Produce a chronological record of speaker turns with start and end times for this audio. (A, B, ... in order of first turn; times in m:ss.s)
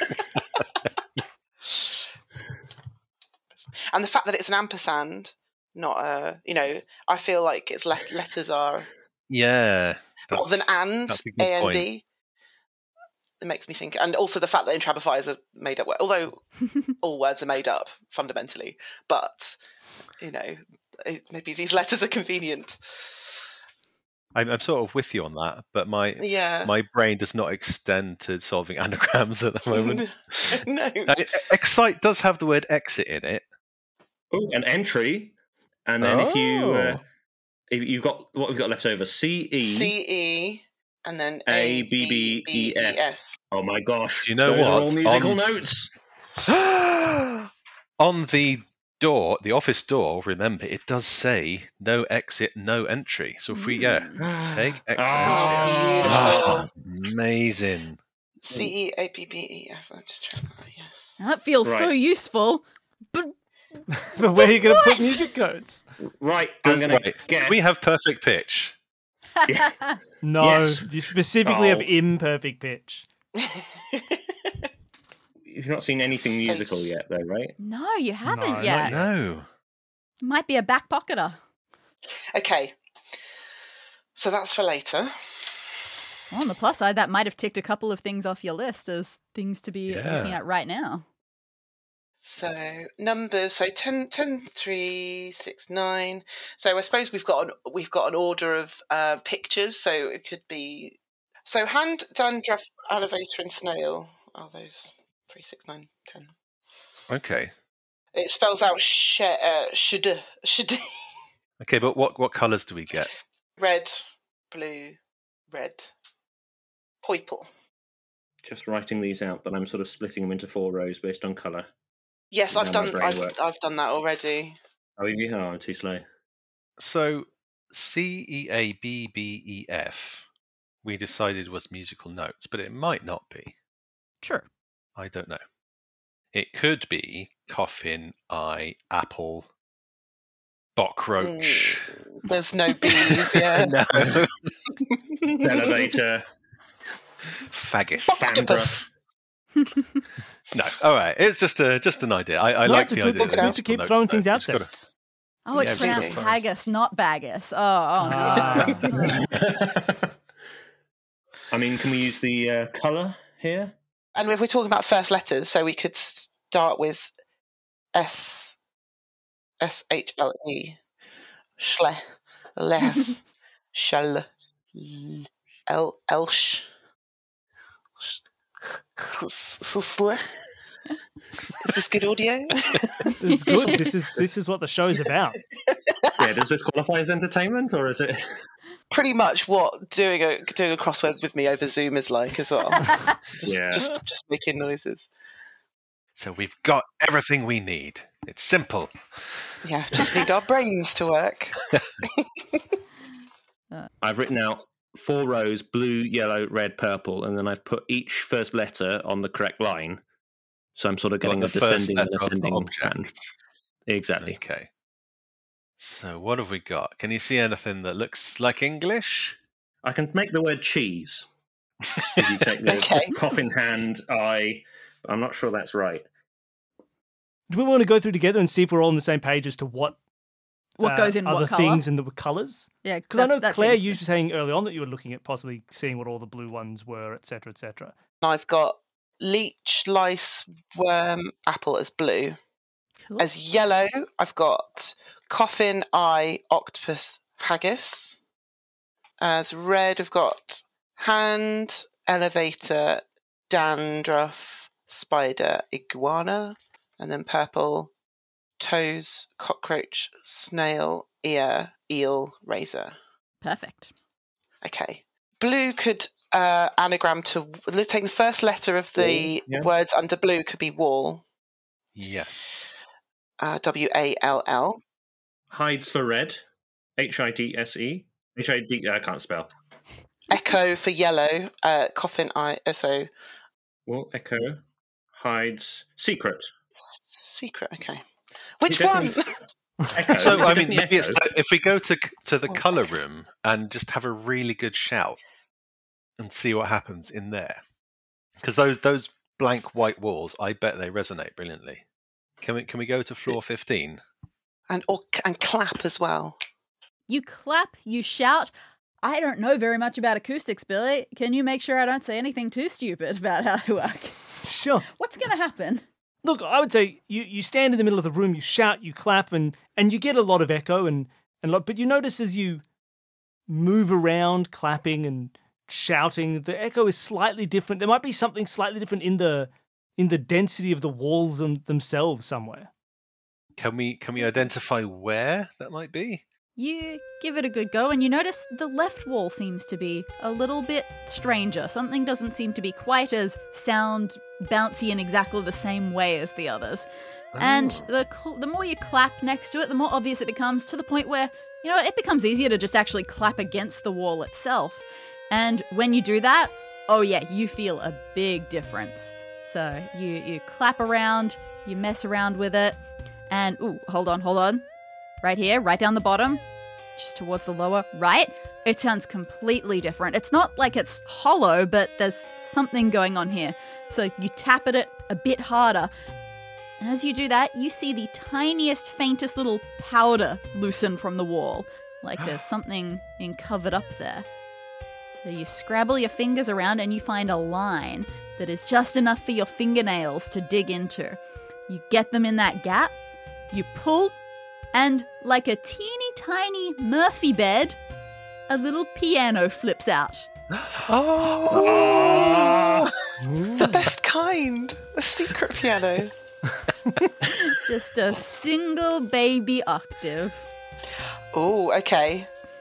0:03.9-0:08.9 A
0:09.3-0:11.8 B
0:10.3-0:12.0 A
0:13.4-0:16.4 A
0:17.0-0:19.6 A
0:20.2-0:22.8 A
0:24.3-0:33.4 B
0:26.2-0:26.7 A
0:29.7-0:31.3 A
0:34.3-0:35.3 C
0:35.9-0:37.0 C
0:36.0-0:37.0 B
0:37.7-0:39.9 C
0:39.6-0:43.4 A
0:41.5-0:43.0 C
0:43.5-0:45.9 C
0:44.2-0:45.4 B
0:46.5-0:58.0 B
0:53.5-0:54.2 D
0:54.2-0:56.6 C
0:55.2-0:56.6 A
0:58.4-1:01.2 A
1:01.2-1:03.3 D
1:01.6-1:01.9 C
1:03.9-1:05.8 E
1:04.4-1:05.2 D
1:06.2-1:07.8 C
1:06.6-1:08.7 B
1:09.4-1:09.7 C
1:10.2-1:13.0 E
1:10.4-1:10.9 C
1:11.4-1:11.9 C
1:13.4-1:14.2 A
1:15.5-1:17.6 C
1:16.4-1:17.0 A
1:17.6-1:19.0 D
1:18.2-1:19.1 E
1:18.8-1:19.4 B
1:20.2-1:21.4 D
1:22.3-1:22.8 A
1:24.1-1:25.1 A
1:26.3-1:31.0 D
1:29.9-1:30.4 B
1:32.2-1:46.3 A
1:47.1-1:47.5 B
1:48.1-1:50.9 A
1:51.6-1:53.1 B
1:53.6-1:55.0 A
1:55.5-1:55.9 A
1:57.0-1:57.5 A
1:58.4-2:01.7 C
2:02.3-2:04.6 A
2:02.5-2:03.4 C
2:05.0-2:06.0 C
2:06.8-2:10.2 B
2:10.8-2:13.5 B
2:15.0-2:15.4 B
2:16.3-2:19.5 B
2:20.8-2:21.9 B
2:21.2-2:24.2 A
2:22.9-2:24.5 B
2:24.7-2:25.9 A
2:25.4-2:26.3 C
2:27.5-2:28.3 B
2:28.1-2:28.8 A
2:28.1-2:28.8 C
2:30.5-2:34.7 B
2:32.6-2:34.6 E
2:33.1-2:33.5 A
2:35.4-2:39.3 D
2:35.5-2:36.4 B
2:35.6-2:36.2 A
2:38.0-2:39.2 E
2:38.3-2:38.9 A
2:39.2-2:40.1 C
2:41.5-2:43.7 C
2:44.2-2:47.1 A
2:47.9-2:48.6 A
2:49.6-2:50.8 A
2:51.6-2:52.0 A
2:52.6-2:53.2 A
2:53.7-2:56.7 A
2:59.0-3:00.3 A
3:01.6-3:03.8 A
3:03.2-3:05.4 E
3:03.3-3:03.8 D
3:05.7-3:06.2 A
3:06.2-3:08.5 C
3:08.9-3:15.1 A
3:13.4-3:13.9 C
3:16.2-3:19.5 B
3:19.6-3:22.6 A
3:24.0-3:30.0 C
3:30.8-3:33.1 C
3:31.2-3:33.2 B
3:33.9-3:34.4 C
3:34.2-3:34.7 B
3:35.8-3:39.4 B
3:39.8-3:41.2 C
3:42.2-3:46.0 C
3:42.6-3:43.2 A
3:47.5-3:50.0 E
3:50.8-3:51.8 D
3:50.8-3:57.9 E
3:52.8-3:54.0 D
3:58.2-4:02.4 A
4:03.2-4:08.2 A
4:09.2-4:17.9 A
4:18.6-4:22.9 A
4:23.4-4:23.9 D
4:24.6-4:31.2 A
4:29.0-4:29.7 C
4:32.0-4:32.7 B
4:33.4-4:34.8 A
4:35.5-4:36.4 C
4:37.0-4:39.5 C
4:40.3-4:43.1 A
4:43.9-4:44.6 C
4:45.1-4:46.5 C
4:46.7-4:48.0 A
4:48.6-4:49.4 A
4:48.6-4:49.2 C
4:49.9-4:51.2 C
4:50.2-4:55.2 B
4:56.2-4:57.6 B
4:58.4-5:01.8 B
5:02.4-5:04.0 B
5:04.7-5:06.4 A
5:07.1-5:14.2 D
5:14.4-5:14.9 E
5:14.9-5:15.8 D
5:16.2-5:22.6 E
5:23.5-5:32.7 E
5:33.6-5:36.2 B
5:36.6-6:02.8 D
5:47.3-5:47.9 B
6:03.3-6:04.6 D
6:05.2-6:06.4 D
6:07.0-6:15.9 D
6:16.8-6:24.3 D
6:25.1-6:32.9 D
6:33.5-6:34.2 D
6:34.7-6:37.8 D
6:38.5-6:40.3 D
6:40.5-6:42.9 B
6:41.5-6:42.9 C
6:42.0-6:42.5 A
6:43.2-6:43.8 E
6:43.5-6:46.1 A
6:47.4-6:50.4 D
6:51.3-6:52.3 A